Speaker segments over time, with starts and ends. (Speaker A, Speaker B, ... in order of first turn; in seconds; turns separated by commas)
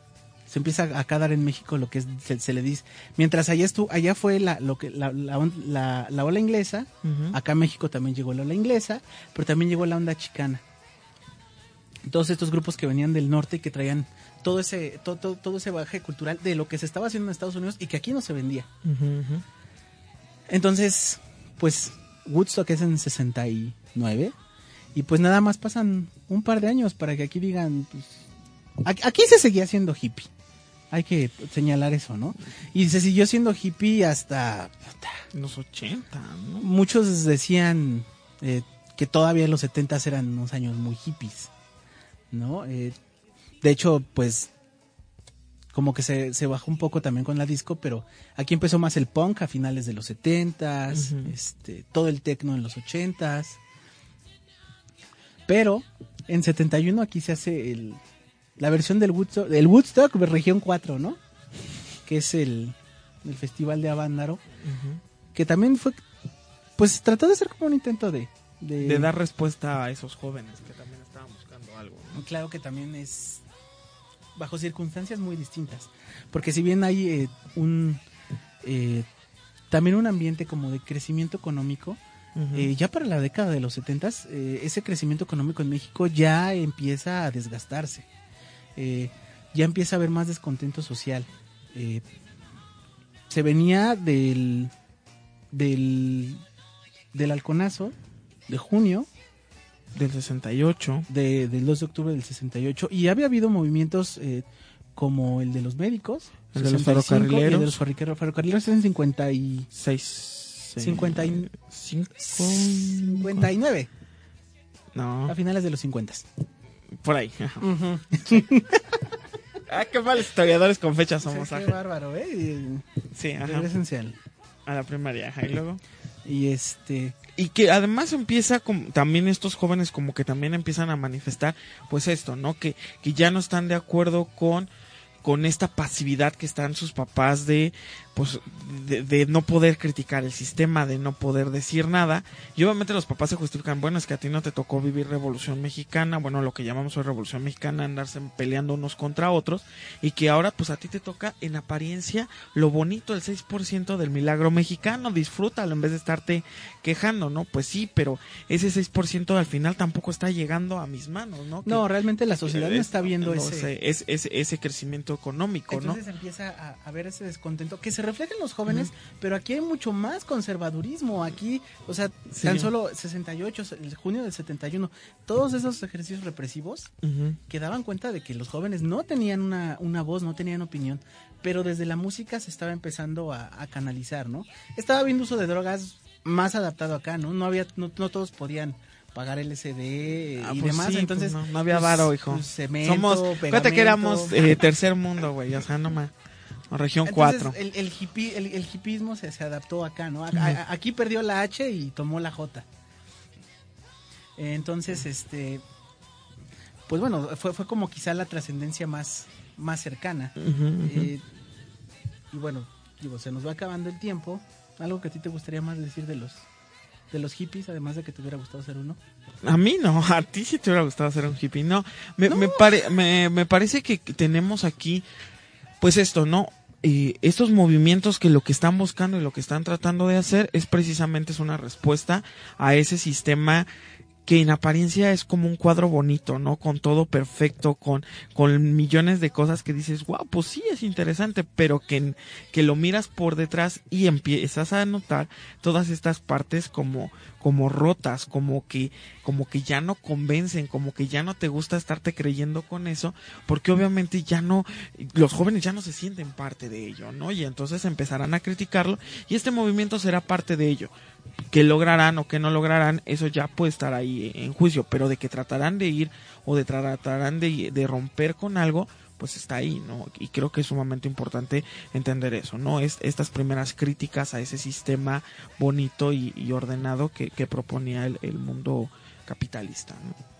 Speaker A: 0.5-10.6, Speaker B: 7.0-7.4, Speaker A: 12.1-18.7, Speaker B: 18.8-19.4, Speaker A: 20.5-24.4, Speaker A: 24.9-28.2, Speaker A: 28.9-30.3, Speaker A: 30.9-35.2, Speaker B: 35.3-36.7, Speaker A: 36.6-41.5, Speaker A: 42.3-43.0, Speaker A: 43.6-44.5, Speaker A: 45.7-53.6, Speaker B: 50.9-51.4, Speaker A: 55.5-58.0, Speaker A: 58.6-61.2, Speaker A: 62.1-64.4, Speaker B: 64.6-65.0, Speaker A: 65.3-66.0, Speaker A: 66.8-69.1, Speaker B: 68.8-72.2, Speaker A: 72.1-73.4, Speaker A: 74.3-78.0, Speaker A: 78.6-79.1, Speaker A: 79.7-82.0, Speaker B: 82.4-82.7, Speaker A: 82.5-88.1, Speaker A: 88.8-92.0, Speaker A: 93.3-94.7, Speaker A: 95.5-96.4, Speaker A: 97.1-98.0, Speaker A: 98.5-99.1, Speaker B: 100.0-101.1, Speaker A: 101.1-104.5, Speaker A: 105.0-109.7, Speaker B: 106.5-107.8, Speaker B: 109.7-113.5, Speaker A: 110.8-111.5, Speaker A: 112.2-113.9, Speaker B: 114.9-115.4, Speaker A: 115.3-116.3, Speaker B: 117.0-117.7, Speaker A: 117.6-119.0, Speaker B: 119.7-121.8, Speaker A: 121.2-122.9, Speaker B: 123.1-123.7, Speaker A: 123.4-124.2, Speaker B: 124.7-125.8, Speaker A: 126.2-127.2, Speaker B: 127.4-134.7, Speaker B: 135.2-161.9, Speaker A: 161.7-163.7, Speaker B: 162.4-166.0, Speaker A: 165.7-176.9, Speaker B: 172.3-172.7, Speaker B: 177.0-177.4, Speaker A: 177.5-194.3, Speaker B: 190.4-196.1, Speaker B: 196.7-197.6, Speaker A: 197.1-202.7, Speaker B: 200.3-200.6, Speaker A: 204.4-205.6, Speaker A: 206.9-211.2, Speaker B: 210.4-211.1, Speaker A: 212.3-216.5, Speaker A: 217.1-219.0, Speaker B: 219.4-225.1, Speaker A: 222.3-222.8, Speaker B: 225.8-233.7, Speaker B: 234.2-260.9, Speaker B: 261.5-280.2